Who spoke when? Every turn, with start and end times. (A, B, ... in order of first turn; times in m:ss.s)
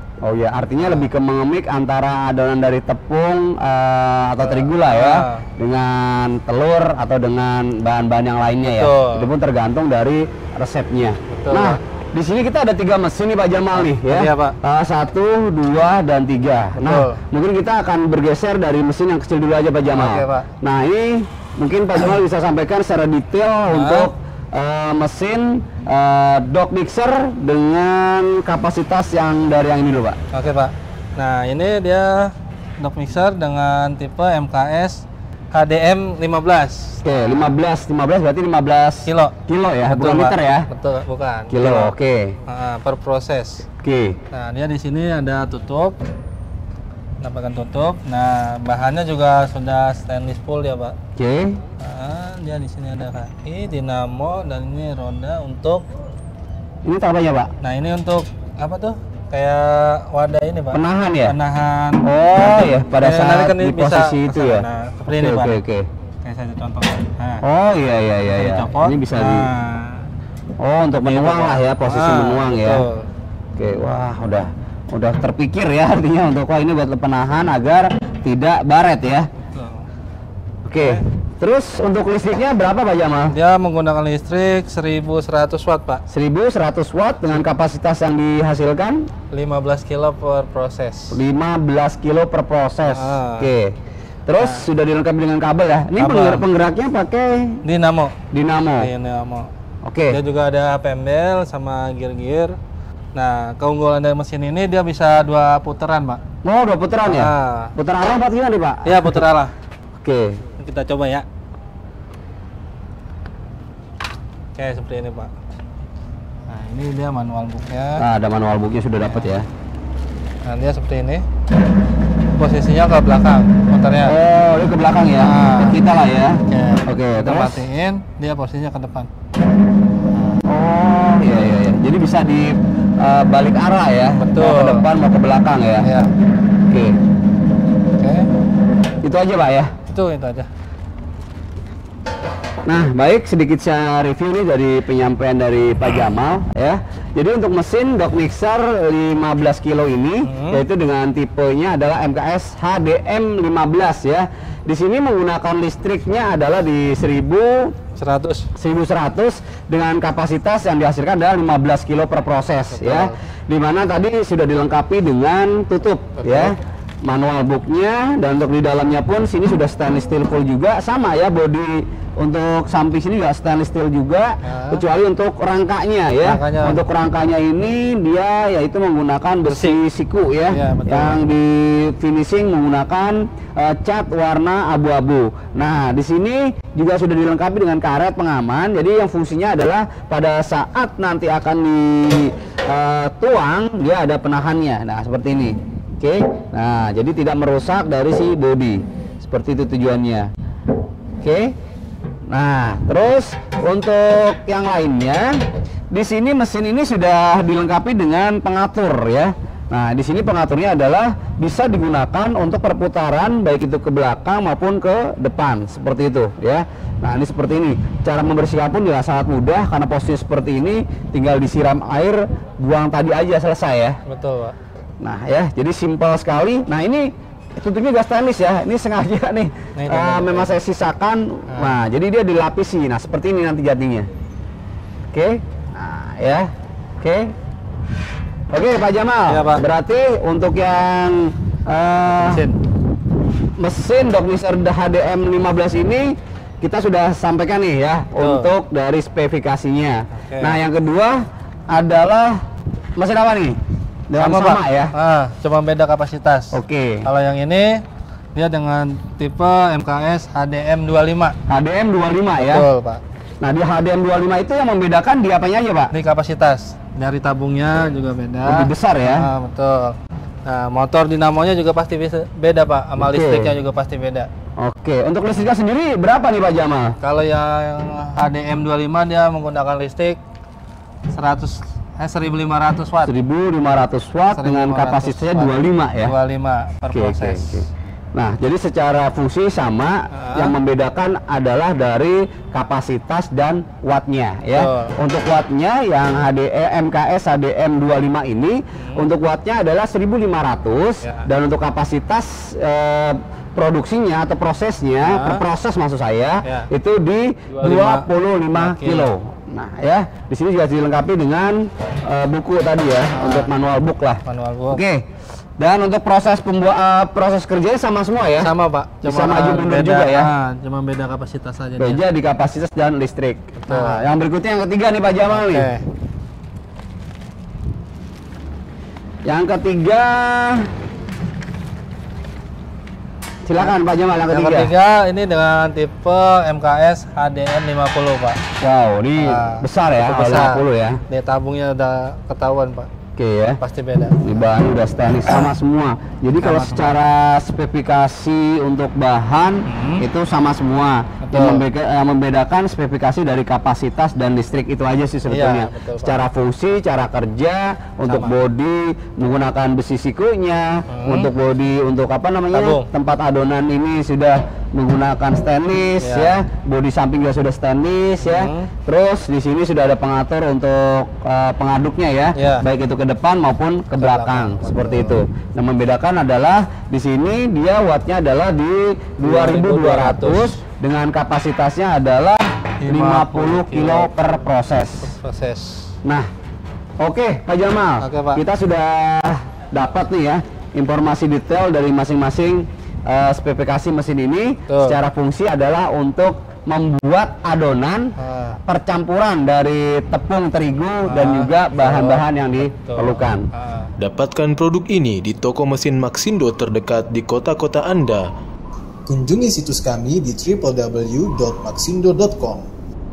0:00.2-0:30.2 A
0:00.8-0:01.1 B
0:04.4-0:05.5 B
0:08.6-0:09.3 B
0:11.3-0:11.8 B
0:13.8-0:14.6 B
0:16.8-0:17.2 B
0:19.9-0:20.5 B
0:23.7-0:24.1 B
0:30.3-0:37.6 B
0:37.0-0:40.7 A
0:39.0-0:41.9 B
0:41.5-0:42.4 A
0:42.5-0:43.7 B
0:43.8-0:44.2 A
0:44.3-0:46.0 B
0:47.2-0:51.0 B
0:51.2-0:51.6 A
0:51.8-0:55.9 B
0:56.8-0:57.5 A
0:57.6-1:05.6 B
1:00.7-1:01.4 A
1:02.0-1:05.9 A
1:06.2-1:07.4 B
1:07.4-1:09.5 A
1:08.2-1:10.1 B
1:10.6-1:12.8 A
1:10.9-1:13.1 B
1:13.6-1:19.3 A
1:19.4-1:19.8 B
1:20.7-1:23.4 A
1:23.3-1:26.0 B
1:26.1-1:29.0 A
1:29.3-1:31.2 B
1:31.1-1:37.6 A
1:32.9-1:33.5 B
1:34.4-1:34.7 B
1:36.0-1:36.4 B
1:37.6-1:38.2 B
1:38.3-1:38.9 A
1:38.8-1:39.5 B
1:39.8-1:40.2 A
1:40.1-1:42.6 B
1:43.2-1:46.2 B
1:46.4-1:49.2 A
1:47.0-1:47.7 B
1:48.8-1:49.5 B
1:50.0-1:50.4 A
1:50.6-1:51.3 B
1:54.6-1:55.3 B
1:56.5-1:58.0 B
1:58.0-1:59.5 A
1:59.0-1:59.3 B
2:00.4-2:01.2 B
2:02.4-2:04.2 B
2:04.0-2:07.6 A
2:05.2-2:05.8 B
2:06.5-2:09.1 B
2:10.2-2:15.9 A
2:14.2-2:14.9 B
2:15.8-2:16.1 B
2:16.7-2:17.0 A
2:18.0-2:18.3 B
2:19.0-2:19.7 A
2:19.9-2:20.5 B
2:22.7-2:37.7 A
2:30.2-2:30.6 B
2:38.0-2:38.5 B
2:38.6-3:20.3 A
2:42.7-2:43.2 B
2:46.2-2:46.5 B
2:54.4-2:54.8 B
2:56.2-2:56.8 B
2:59.5-2:59.8 B
3:00.5-3:01.2 B
3:21.2-3:21.5 A
3:22.3-3:25.4 A
3:25.9-3:44.0 A
3:44.1-3:44.6 B
3:45.0-3:54.1 A
3:49.8-3:50.5 B
3:51.5-3:51.8 B
3:55.1-3:57.3 A
3:58.5-4:02.4 A
3:59.3-3:59.6 B
4:02.2-4:02.6 B
4:03.6-4:12.4 A
4:08.2-4:08.5 B
4:10.2-4:10.6 B
4:13.0-4:13.6 A
4:14.1-4:14.9 A
4:14.2-4:17.8 B
4:16.5-4:17.1 A
4:18.4-4:21.4 B
4:21.5-4:22.7 A
4:22.4-4:23.0 B
4:23.4-4:25.9 A
4:25.9-4:34.3 B
4:28.4-4:29.3 A
4:33.0-4:33.5 A
4:34.6-4:37.0 A
4:37.0-4:40.2 B
4:41.1-4:43.1 B
4:43.0-4:46.1 A
4:44.3-4:47.6 B
4:46.9-5:15.0 A
4:50.1-4:50.6 B
4:54.6-4:54.9 B
4:58.8-4:59.1 B
5:05.0-5:05.4 B
5:07.5-5:09.1 B
5:13.1-5:13.5 B
5:14.2-5:14.8 B
5:15.6-5:18.5 A
5:18.4-5:22.0 B
5:19.0-5:20.3 A
5:21.8-5:25.7 A
5:23.6-5:24.1 B
5:25.3-5:25.8 B
5:29.3-5:30.7 A
5:33.5-5:34.7 A
5:34.3-5:38.4 B
5:38.6-5:41.0 A
5:39.2-5:42.9 B
5:43.2-5:43.6 A
5:43.6-5:44.5 B
5:44.2-6:25.1 A
5:46.4-5:47.0 B
5:49.7-5:50.1 B
5:51.2-5:51.6 B
5:55.3-5:56.2 B
5:58.1-5:58.4 B
6:00.9-6:01.3 B
6:02.5-6:02.9 B
6:06.0-6:06.4 B
6:08.2-6:08.7 B
6:12.4-6:12.6 B
6:14.0-6:15.2 B
6:19.2-6:20.6 B
6:22.8-6:24.2 B
6:25.0-6:25.9 B
6:27.0-6:38.1 A
6:28.0-6:28.4 B
6:34.7-6:35.0 B
6:38.2-6:38.6 B
6:38.7-6:43.5 A
6:41.1-6:43.9 B
6:44.0-6:48.3 C
6:49.1-6:52.7 D